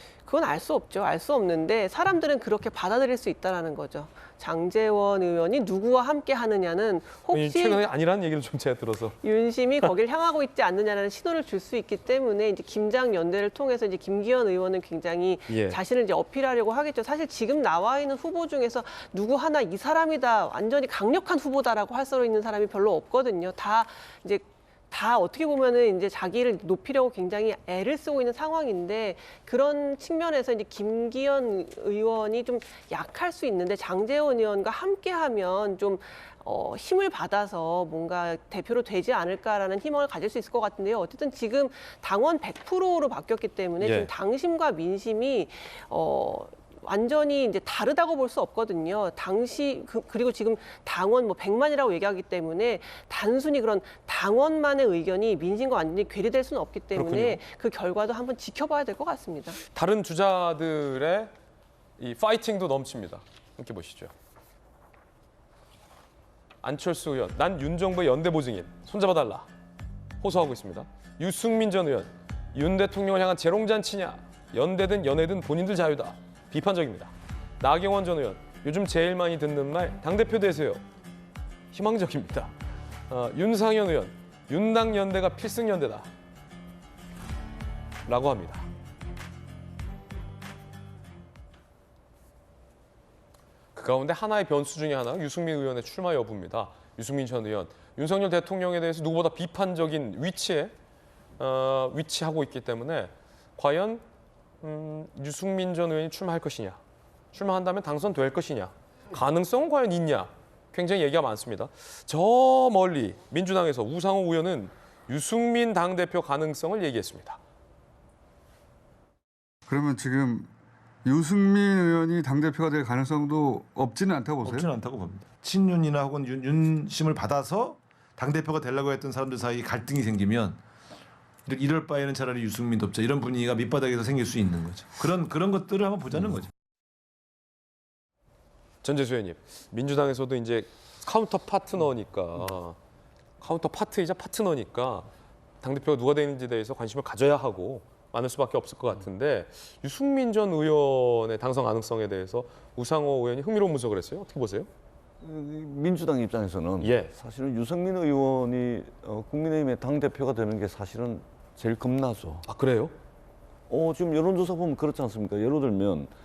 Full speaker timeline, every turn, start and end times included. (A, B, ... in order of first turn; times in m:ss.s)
0:00.2-0:07.8 A
0:07.3-0:09.2 B
0:09.2-0:59.6 A
0:15.5-0:15.8 B
0:43.8-0:44.1 B
0:56.9-0:57.4 B
0:59.7-1:01.3 B
1:02.0-1:04.1 B
1:06.6-1:09.4 B
1:10.2-1:20.8 B
1:21.7-1:22.5 B
1:23.1-1:26.1 B
1:28.0-1:28.6 B
1:33.7-1:40.7 B
1:41.4-1:44.0 B
1:44.6-1:46.8 B
1:47.3-1:57.4 B
1:59.7-2:00.5 C
2:01.0-2:04.7 C
2:04.4-2:10.6 D
2:11.4-2:16.5 D
2:18.8-2:22.8 B
2:23.4-2:25.1 B
2:25.6-2:34.7 B
2:35.2-2:42.4 E
2:36.8-2:37.1 B
2:42.4-2:42.9 B
2:43.7-2:46.1 E